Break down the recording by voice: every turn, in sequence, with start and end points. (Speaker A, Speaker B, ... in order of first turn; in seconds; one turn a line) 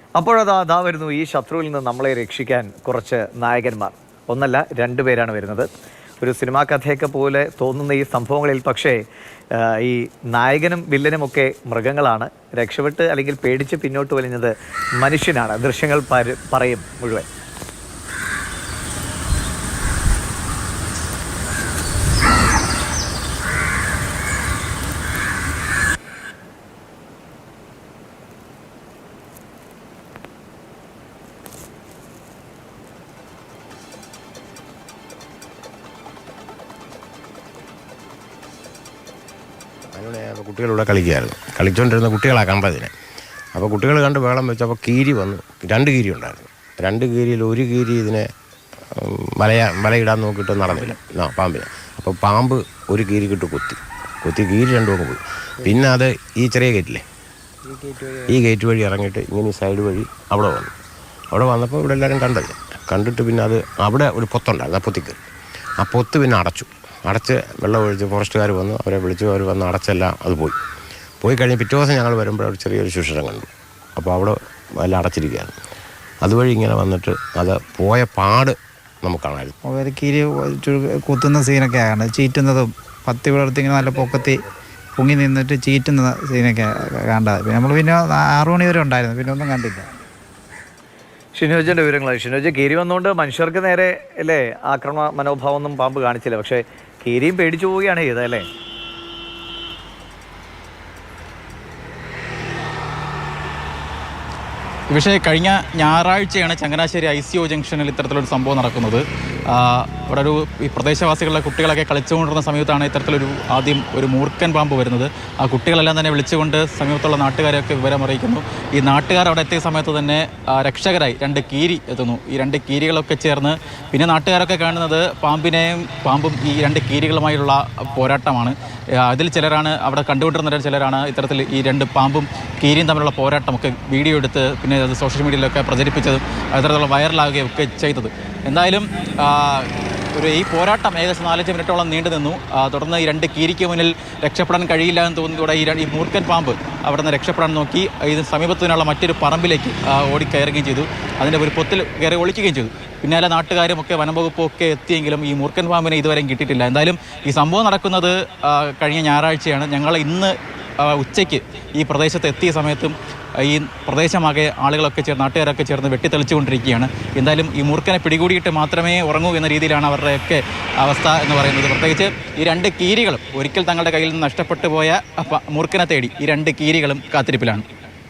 Speaker A: 0.2-5.7
Speaker A: 6.2-9.0
Speaker A: 9.6-17.3
Speaker B: 39.9-42.9
Speaker B: 43.5-48.3
Speaker B: 48.9-57.0
Speaker C: 57.7-58.3
Speaker B: 58.3-60.7
Speaker B: 61.3-65.2
Speaker B: 65.8-70.6
Speaker B: 71.2-75.5
Speaker B: 76.2-79.5
Speaker C: 79.7-84.4
Speaker C: 85.0-89.9
Speaker A: 91.3-98.5
Speaker D: 104.9-177.7